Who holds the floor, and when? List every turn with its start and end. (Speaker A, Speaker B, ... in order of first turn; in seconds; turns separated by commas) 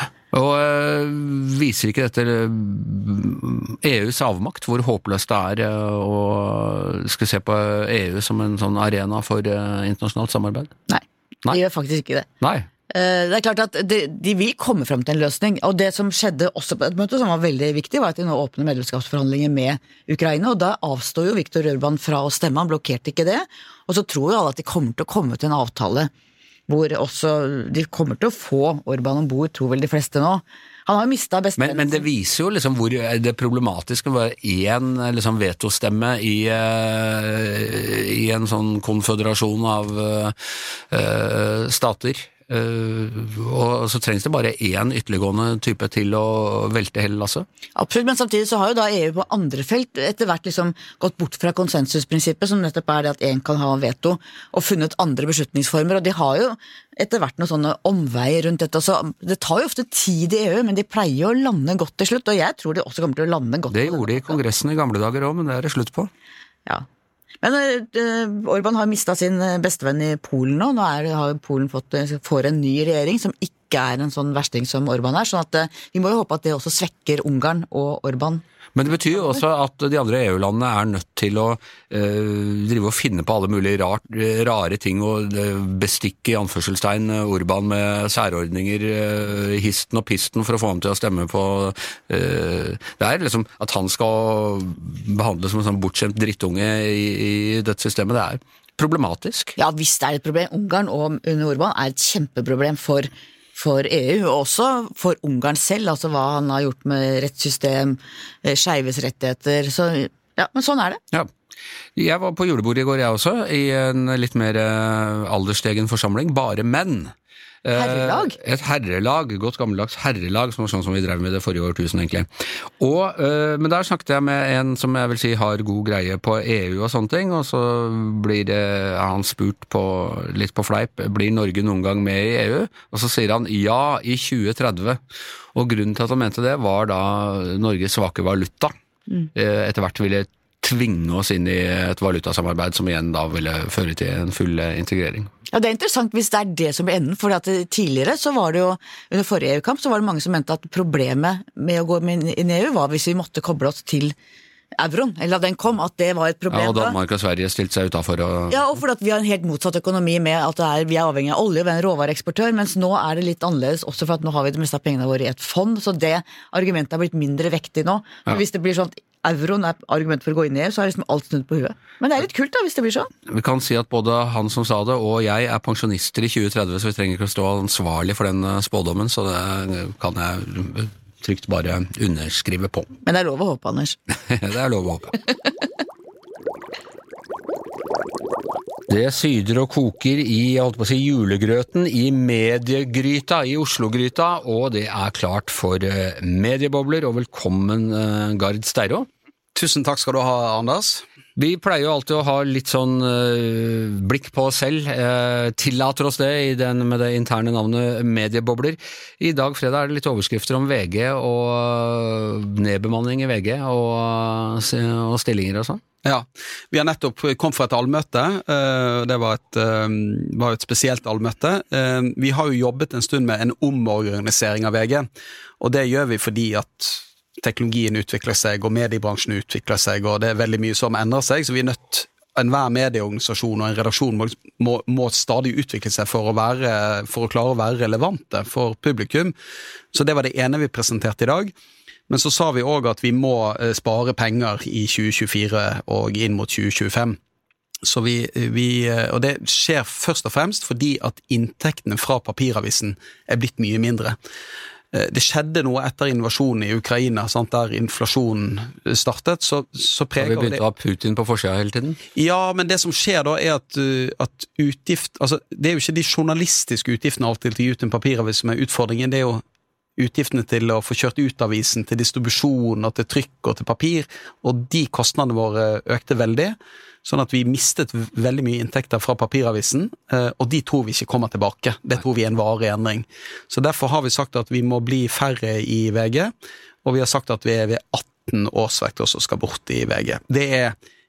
Speaker A: 0.3-10.7, Speaker B: 10.9-12.3, Speaker A: 12.4-12.7, Speaker B: 12.9-26.1, Speaker B: 26.7-32.0, Speaker A: 31.6-40.4, Speaker A: 40.9-47.5, Speaker B: 47.8-64.4, Speaker A: 63.7-66.1, Speaker B: 67.4-78.4, Speaker A: 78.7-99.5, Speaker B: 99.6-111.0, Speaker A: 112.0-135.0, Speaker B: 117.7-118.3, Speaker A: 135.5-138.7, Speaker A: 139.3-145.3, Speaker B: 145.5-154.2, Speaker B: 154.8-157.0, Speaker A: 156.5-158.6, Speaker B: 158.5-173.1, Speaker A: 173.3-182.9, Speaker B: 183.0-184.0, Speaker A: 184.3-185.1, Speaker A: 188.9-199.1, Speaker C: 199.5-201.0, Speaker A: 201.3-215.8, Speaker C: 216.0-225.1, Speaker C: 225.6-239.3, Speaker C: 239.9-241.5, Speaker C: 242.1-247.2, Speaker C: 247.8-254.2, Speaker C: 254.9-260.6, Speaker A: 260.2-262.0, Speaker C: 262.1-269.4, Speaker C: 270.0-286.3, Speaker C: 286.8-290.7